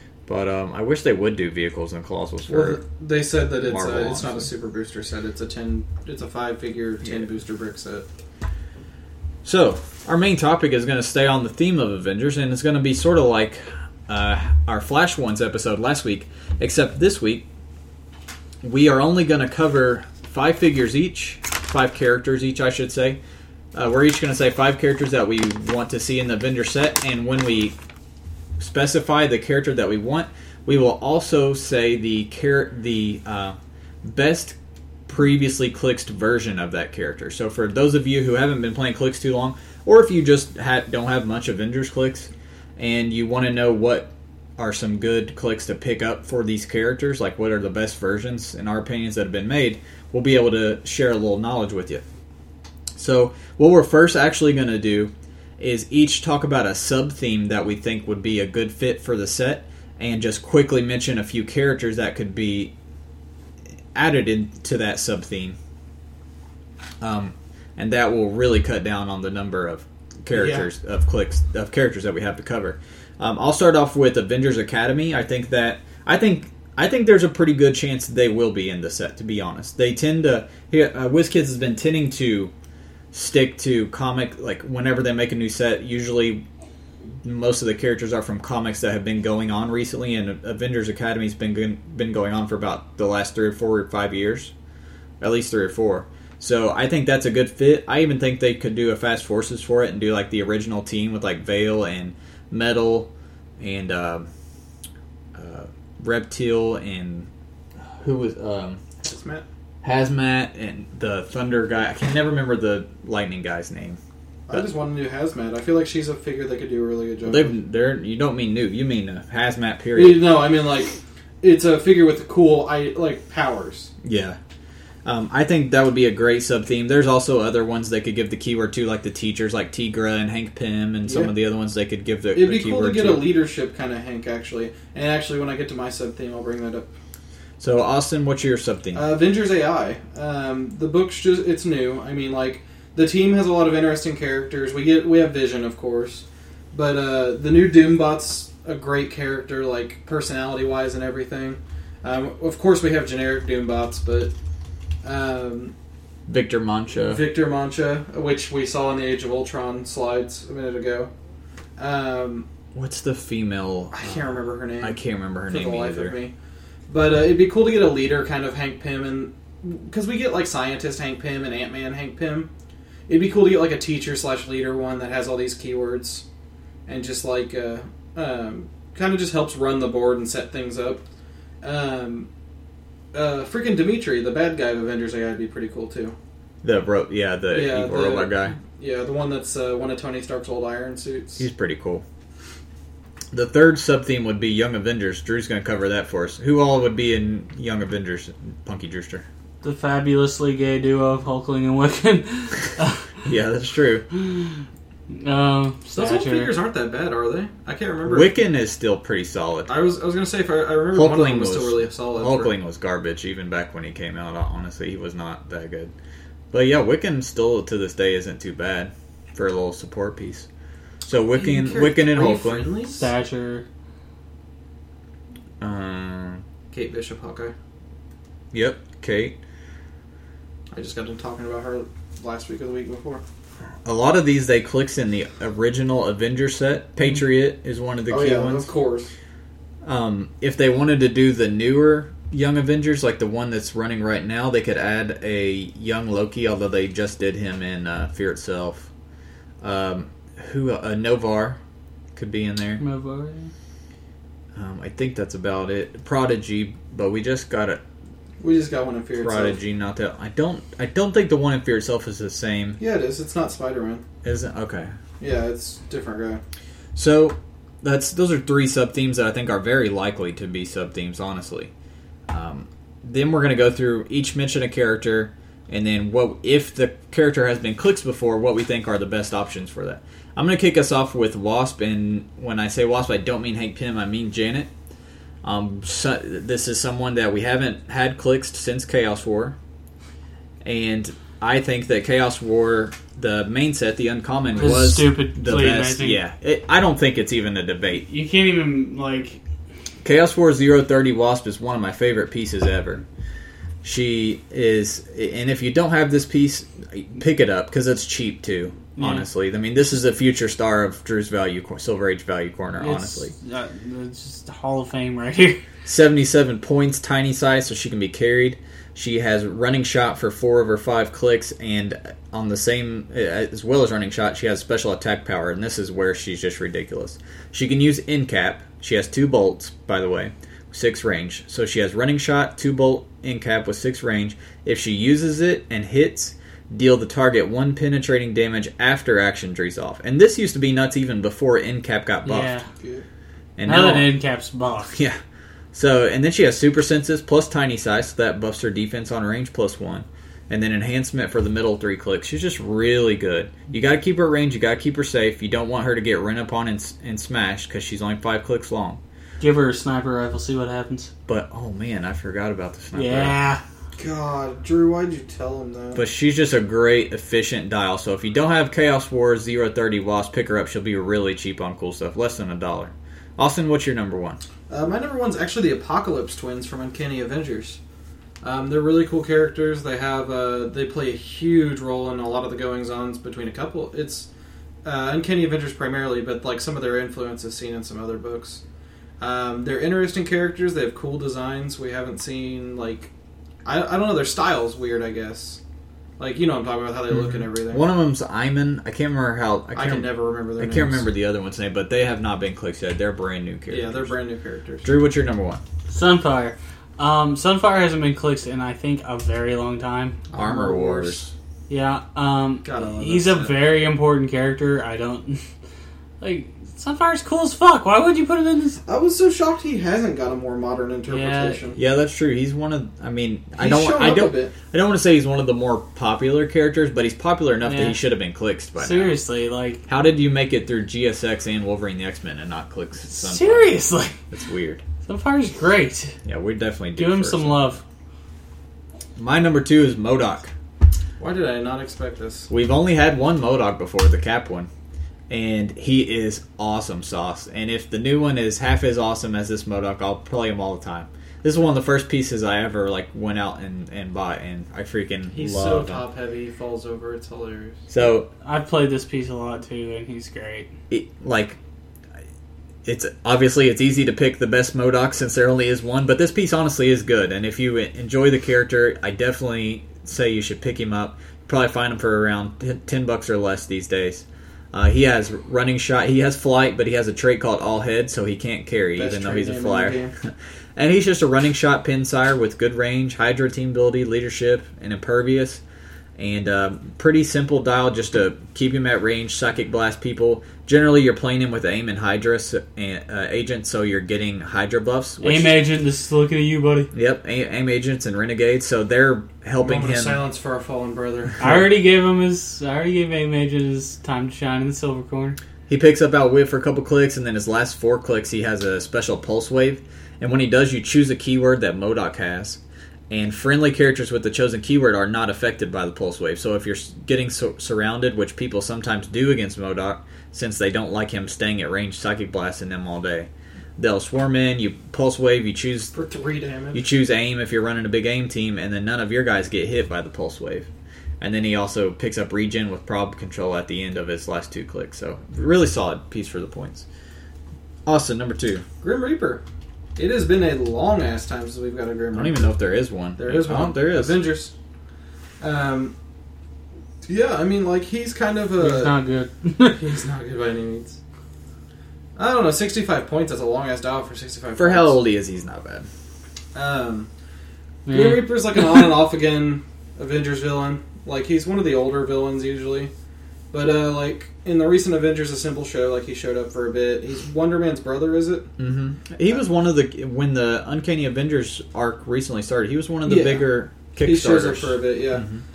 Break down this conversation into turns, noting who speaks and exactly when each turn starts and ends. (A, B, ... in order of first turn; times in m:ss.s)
0:00.3-0:02.8 A
0:02.5-0:08.0 B
0:03.6-0:04.5 A
0:09.4-0:17.4 A
0:18.6-0:23.2 A
0:23.7-0:27.8 A
0:28.6-0:52.0 A
0:53.0-1:02.7 A
1:03.9-1:05.6 A
1:07.0-1:22.5 A
1:10.3-1:10.7 B
1:23.1-1:26.4 A
1:27.2-1:34.5 A
1:35.2-1:44.3 A
1:45.3-1:47.3 A
1:48.0-1:48.8 A
1:49.0-1:49.4 B
1:49.8-1:54.0 A
1:54.5-1:57.5 B
1:57.2-2:00.2 A
1:59.9-2:03.9 B
2:04.0-2:04.4 A
2:05.0-2:13.3 A
2:11.0-2:11.3 B
2:12.3-2:16.9 B
2:17.6-2:19.0 A
2:18.9-2:34.3 B
2:35.0-2:35.7 B
2:36.3-2:37.2 A
2:37.0-2:41.1 B
2:41.8-2:42.5 B
2:42.7-2:46.2 A
2:43.9-2:46.3 B
2:46.9-2:52.5 B
2:53.1-2:56.2 B
2:56.9-3:01.0 B
3:01.6-3:02.3 B
3:03.1-3:06.2 B
3:06.6-3:08.6 A
3:07.5-3:11.5 B
3:11.4-3:12.0 A
3:13.3-3:19.2 A
3:19.6-3:23.1 C
3:23.2-3:24.1 A
3:24.1-3:26.5 C
3:25.9-3:28.3 B
3:28.0-3:29.7 A
3:29.7-3:32.5 B
3:30.9-3:35.9 A
3:36.5-3:40.5 A
3:41.0-3:42.7 A
3:41.3-3:43.1 B
3:43.0-3:43.6 C
3:45.6-3:46.4 A
3:46.7-3:47.5 B
3:48.5-3:49.4 A
3:50.7-3:53.2 B
3:53.8-3:58.7 A
3:58.1-3:59.1 B
3:59.8-4:08.9 A
4:09.6-4:11.6 A
4:12.1-4:12.8 A
4:12.8-4:13.5 C
4:14.6-4:17.8 A
4:18.4-4:19.6 B
4:19.2-4:22.8 A
4:22.8-4:24.0 B
4:24.2-4:24.9 A
4:25.2-4:26.4 B
4:26.9-4:31.7 A
4:32.3-4:44.7 A
4:45.4-4:49.6 A
4:50.6-4:58.0 A
4:54.6-4:56.2 C
4:58.1-4:59.4 C
5:00.0-5:03.0 A
5:03.8-5:13.3 A
5:09.0-5:09.3 C
5:12.8-5:15.6 C
5:15.8-5:42.6 A
5:42.2-5:42.6 C
5:42.8-5:43.0 B
5:43.6-5:44.1 A
5:43.6-5:45.0 C
5:44.9-5:45.2 A
5:45.7-5:59.0 A
5:59.4-6:01.1 C
6:01.3-6:03.4 A
6:02.9-6:03.6 C
6:04.0-6:06.0 B
6:05.9-6:14.4 A
6:14.7-6:17.8 B
6:18.4-6:24.3 B
6:24.8-6:28.6 B
6:29.2-6:33.1 B
6:33.6-6:35.6 B
6:36.2-6:37.8 B
6:37.1-6:44.1 A
6:39.7-6:41.1 B
6:43.7-6:44.9 B
6:44.8-6:45.6 A
6:45.9-6:50.2 C
6:50.3-6:51.2 B
6:50.3-6:51.3 A
6:51.7-6:55.4 C
6:52.6-6:53.6 B
6:56.2-6:58.8 C
6:58.8-7:01.8 B
7:01.1-7:01.6 C
7:01.8-7:09.1 A
7:03.6-7:04.5 B
7:07.6-7:08.0 C
7:08.8-7:09.8 C
7:09.9-7:13.8 A
7:13.1-7:14.2 C
7:14.3-7:14.8 A
7:15.0-7:16.2 C
7:16.2-7:17.8 A
7:17.0-7:17.8 C
7:19.2-7:20.5 A
7:21.2-7:22.5 B
7:22.5-7:24.7 A
7:25.3-7:36.0 A
7:35.3-7:37.8 B
7:37.9-7:38.3 A
7:38.4-7:40.7 C
7:40.9-7:41.6 A
7:42.8-8:05.6 A
7:59.0-8:00.1 B
8:06.2-8:15.6 A
8:15.2-8:16.9 C
8:16.9-8:20.2 A
8:19.6-8:21.4 B
8:21.4-8:25.4 C
8:25.7-8:45.9 A
8:45.9-8:46.8 B
8:46.7-8:50.7 A
8:51.2-8:56.8 A
8:57.8-8:58.6 A
8:58.8-8:59.4 B
9:00.0-9:02.5 B
9:02.1-9:04.2 A
9:03.2-9:04.5 B
9:05.4-9:05.9 B
9:07.0-9:09.0 B
9:08.6-9:09.8 C
9:09.7-9:11.0 B
9:12.2-9:15.0 B
9:14.6-9:15.9 A
9:16.5-9:17.1 B
9:17.8-9:18.9 C
9:17.9-9:22.9 B
9:23.5-9:28.5 B
9:28.6-9:35.4 A
9:33.0-9:35.3 B